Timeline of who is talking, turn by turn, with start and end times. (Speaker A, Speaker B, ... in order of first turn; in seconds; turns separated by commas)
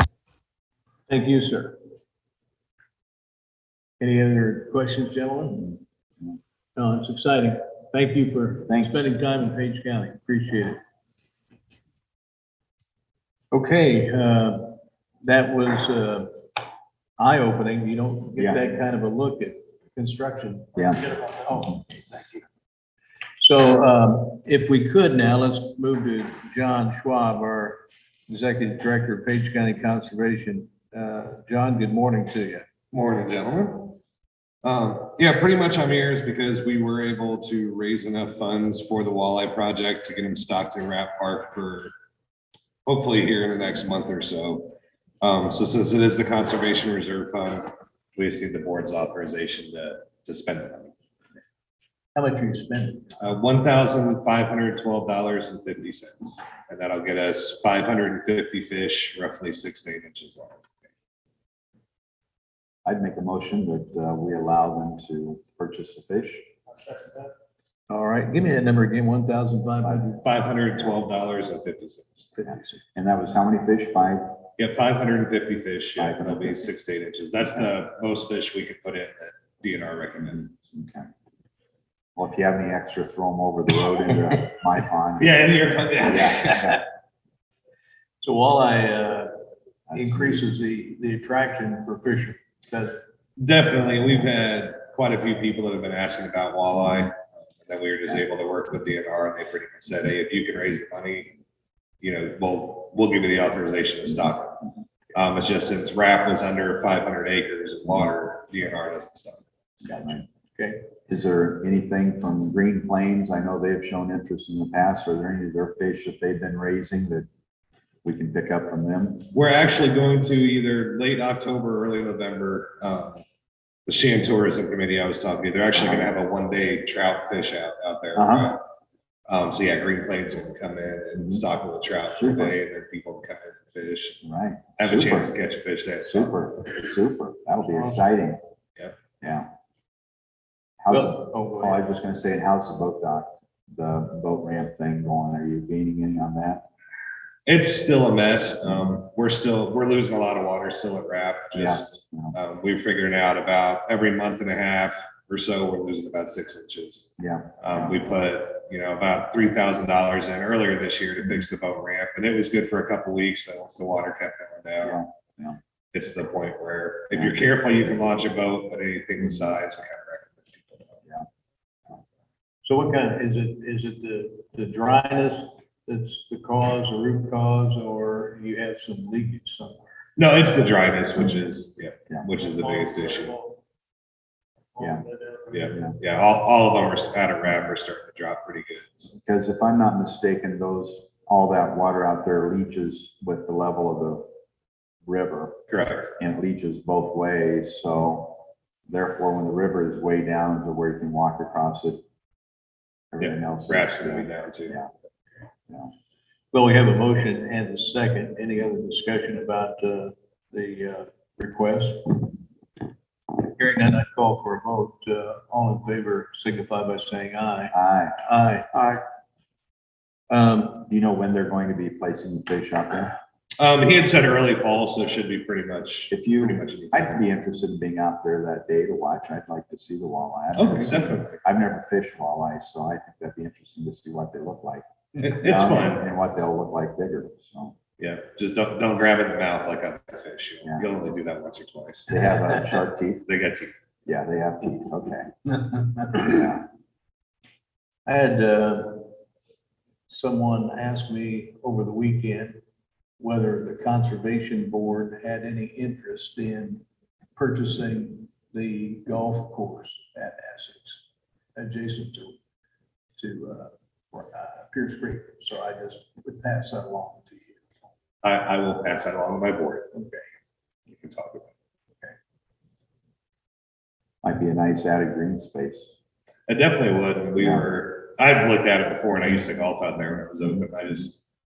Speaker A: 1.1-1.8, Speaker A: 4.0-5.8, Speaker A: 6.8-10.8, Speaker B: 8.7-8.9, Speaker A: 13.5-16.3, Speaker A: 17.2-22.4, Speaker B: 18.4-18.6, Speaker B: 20.8-21.0, Speaker A: 23.4-32.7, Speaker C: 32.9-34.0, Speaker C: 34.6-41.9, Speaker C: 42.9-50.9, Speaker A: 52.1-53.2, Speaker C: 53.2-60.8, Speaker B: 62.9-66.4, Speaker A: 67.9-70.2, Speaker B: 69.8-70.2, Speaker C: 70.2-72.3, Speaker B: 72.4-74.4, Speaker C: 74.6-80.6, Speaker B: 76.0-76.6, Speaker B: 80.6-81.1, Speaker B: 82.2-85.5, Speaker C: 85.2-86.8, Speaker B: 86.0-86.8, Speaker A: 88.2-89.3, Speaker B: 89.9-90.4, Speaker A: 89.9-93.0, Speaker C: 93.4-101.3, Speaker C: 102.0-104.6, Speaker C: 105.1-109.5, Speaker B: 109.8-110.3, Speaker A: 110.6-110.8, Speaker B: 111.1-117.3, Speaker B: 118.0-119.3, Speaker C: 119.3-123.2, Speaker C: 123.9-128.6, Speaker B: 125.8-126.1, Speaker B: 128.2-128.5, Speaker C: 129.3-134.2, Speaker B: 132.1-132.6, Speaker B: 134.2-135.3, Speaker C: 134.8-136.3, Speaker B: 136.0-138.4, Speaker B: 139.2-139.5, Speaker B: 140.8-146.7, Speaker A: 140.9-141.8, Speaker C: 147.5-165.0, Speaker B: 151.5-152.4, Speaker B: 157.2-158.0, Speaker B: 164.8-165.6, Speaker C: 165.9-171.0, Speaker A: 172.6-179.9, Speaker C: 180.2-183.4, Speaker A: 182.7-183.6, Speaker A: 184.8-185.5, Speaker B: 184.8-185.0, Speaker C: 185.5-189.1, Speaker B: 189.1-194.3, Speaker B: 195.1-195.6, Speaker C: 195.7-196.1, Speaker B: 196.2-202.0, Speaker B: 203.1-204.9, Speaker C: 203.2-204.8, Speaker A: 206.5-212.4, Speaker A: 213.3-217.7, Speaker B: 217.7-218.2, Speaker A: 218.2-218.9, Speaker A: 220.3-220.9, Speaker B: 220.9-223.2, Speaker C: 223.6-227.3, Speaker B: 226.1-237.8, Speaker C: 230.6-231.4, Speaker C: 235.2-236.1, Speaker C: 238.0-242.1, Speaker B: 242.1-243.3, Speaker C: 243.3-243.7, Speaker B: 244.1-245.3, Speaker A: 245.7-246.2, Speaker B: 246.2-246.7, Speaker A: 248.1-249.1, Speaker A: 250.1-252.6, Speaker A: 253.2-256.8, Speaker A: 257.4-261.0, Speaker A: 261.6-262.4, Speaker A: 263.2-267.7, Speaker C: 268.2-270.0, Speaker C: 270.9-271.5, Speaker B: 274.2-275.9, Speaker C: 276.5-281.2